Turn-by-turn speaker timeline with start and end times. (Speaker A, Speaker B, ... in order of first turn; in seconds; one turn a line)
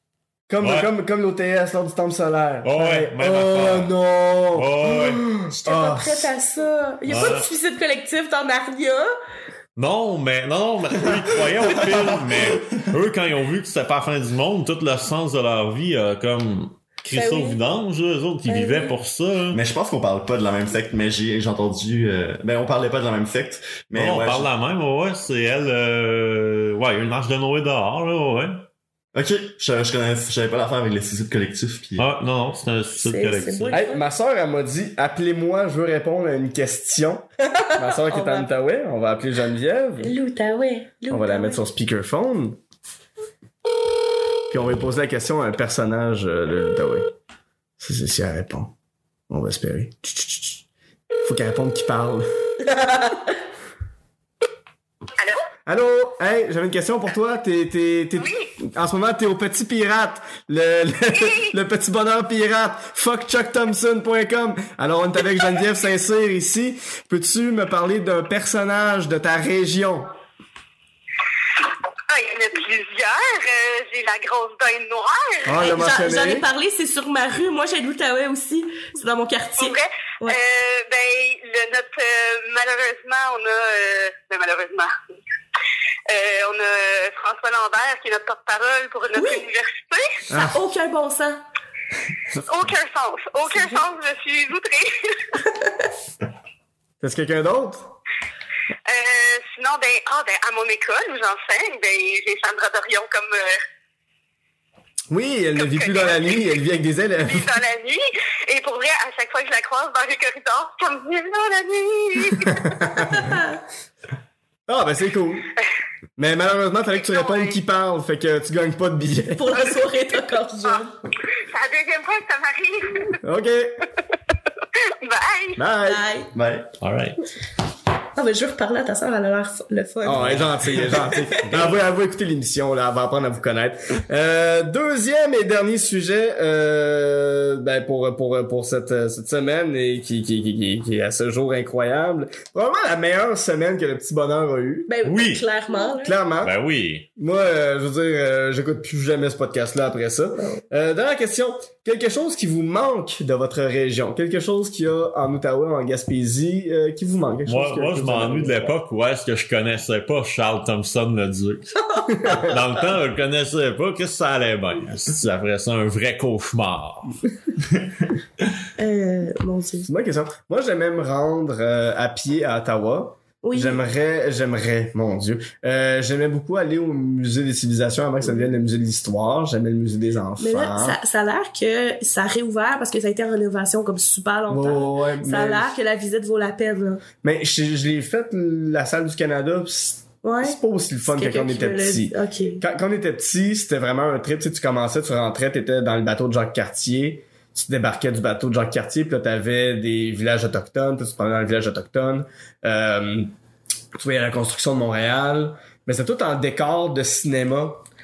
Speaker A: 0.5-6.3
Speaker B: 0.6-0.9
Speaker B: 2.6-3.9
Speaker B: 4.5-5.3
Speaker C: 5.5-9.1
Speaker B: 7.1-7.5
Speaker B: 9.8-19.6
Speaker D: 11.8-12.8
Speaker C: 17.1-17.6
Speaker C: 18.5-18.9
Speaker D: 19.5-24.5
Speaker B: 23.9-28.6
Speaker D: 29.1-32.1
Speaker B: 32.0-33.8
Speaker C: 33.0-34.0
Speaker A: 33.7-40.1
Speaker C: 37.6-38.5
Speaker C: 40.0-41.6
Speaker A: 41.1-42.6
Speaker A: 44.5-47.1
Speaker A: 47.8-48.7
Speaker A: 49.3-50.6
Speaker A: 51.2-52.7
Speaker C: 52.8-53.1
Speaker A: 55.6-70.1
Speaker E: 72.1-75.6
Speaker A: 75.4-76.4
Speaker C: 75.6-80.4
Speaker E: 79.6-84.9
Speaker E: 86.1-90.2
Speaker C: 89.2-89.4
Speaker A: 90.3-90.6
Speaker C: 90.3-91.4
Speaker E: 92.4-95.2
Speaker A: 97.0-97.9
Speaker E: 98.8-103.6
Speaker A: 105.1-107.5
Speaker E: 105.6-106.3
Speaker E: 107.2-112.7
Speaker A: 112.4-113.3
Speaker C: 113.0-113.6
Speaker A: 114.7-115.5
Speaker A: 116.2-119.8
Speaker E: 117.1-117.5
Speaker C: 119.3-121.0
Speaker E: 121.3-123.2
Speaker A: 123.2-123.9
Speaker E: 124.8-125.6
Speaker A: 125.6-126.0
Speaker C: 125.8-126.3
Speaker D: 126.3-126.7
Speaker B: 126.8-127.2
Speaker C: 128.1-131.4
Speaker A: 130.0-144.9
Speaker B: 130.2-130.5
Speaker B: 131.4-131.8
Speaker C: 144.9-146.2
Speaker B: 145.0-145.4
Speaker A: 146.0-146.5
Speaker B: 146.4-147.1
Speaker A: 147.2-158.7
Speaker C: 150.4-150.6
Speaker B: 157.4-167.2
Speaker A: 162.1-162.5
Speaker C: 168.8-169.9
Speaker A: 169.8-181.0
Speaker C: 173.4-173.8
Speaker C: 180.4-187.0
Speaker A: 184.5-185.8
Speaker A: 187.2-203.3
Speaker C: 190.2-192.6
Speaker A: 203.9-207.8